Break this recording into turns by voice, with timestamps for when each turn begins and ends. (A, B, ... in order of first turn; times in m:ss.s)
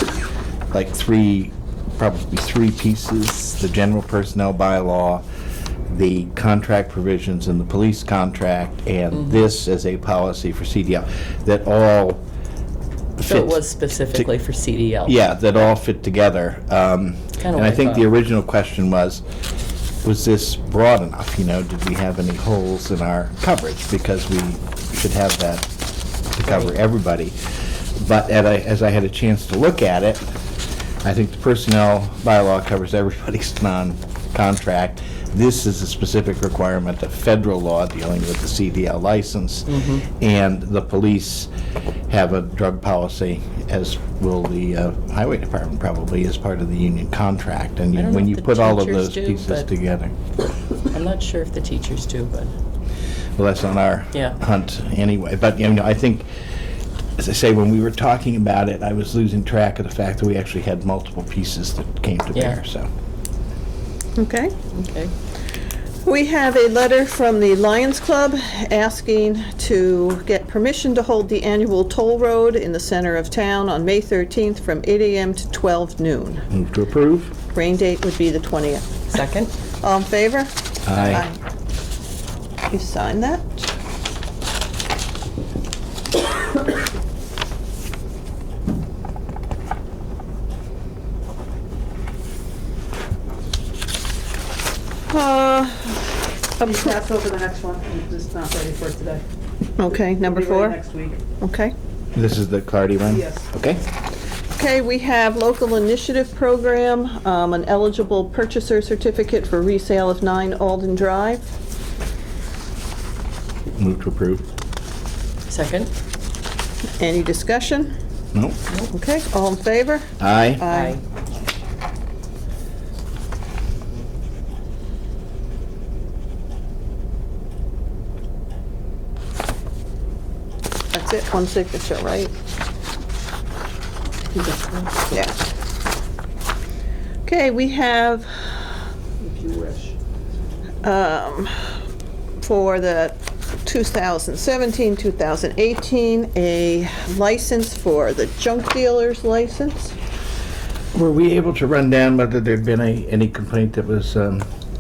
0:00.7-0:05.2 A
0:05.9-0:12.2 A
0:13.2-0:13.6 A
0:13.2-0:15.2 B
0:15.0-0:19.2 A
0:17.4-0:18.1 B
0:20.0-0:25.7 A
0:26.3-0:27.4 A
0:26.4-0:26.8 B
0:28.0-0:30.2 A
0:31.0-0:41.5 A
0:39.7-0:40.1 B
0:42.1-0:50.1 A
0:48.0-0:49.7 B
0:50.9-0:52.5 B
0:53.4-0:56.3 A
0:57.2-1:02.9 A
1:02.3-1:02.6 B
1:04.2-1:04.5 C
1:04.7-1:05.1 B
1:06.0-1:16.5 C
1:16.5-1:17.3 A
1:17.5-1:18.9 C
1:19.1-1:19.5 B
1:19.8-1:21.4 C
1:20.9-1:21.2 A
1:22.7-1:23.7 C
1:35.1-1:36.9 C
1:36.6-1:39.2 D
1:39.8-1:40.8 C
1:39.9-1:41.2 D
1:41.4-1:41.7 C
1:42.1-1:43.8 A
1:43.1-1:43.5 D
1:44.5-1:51.5 C
1:53.8-1:54.5 A
1:55.5-1:55.9 B
1:57.0-1:57.9 C
1:58.3-1:58.6 A
1:58.9-2:01.0 C
2:00.2-2:00.6 A
2:00.7-2:01.0 B
2:10.9-2:12.3 C
2:14.3-2:15.1 D
2:15.1-2:15.4 C
2:17.2-2:18.6 C
2:19.2-2:20.0 D
2:20.8-2:21.7 C
2:22.4-2:29.9 C
2:30.9-2:34.4 A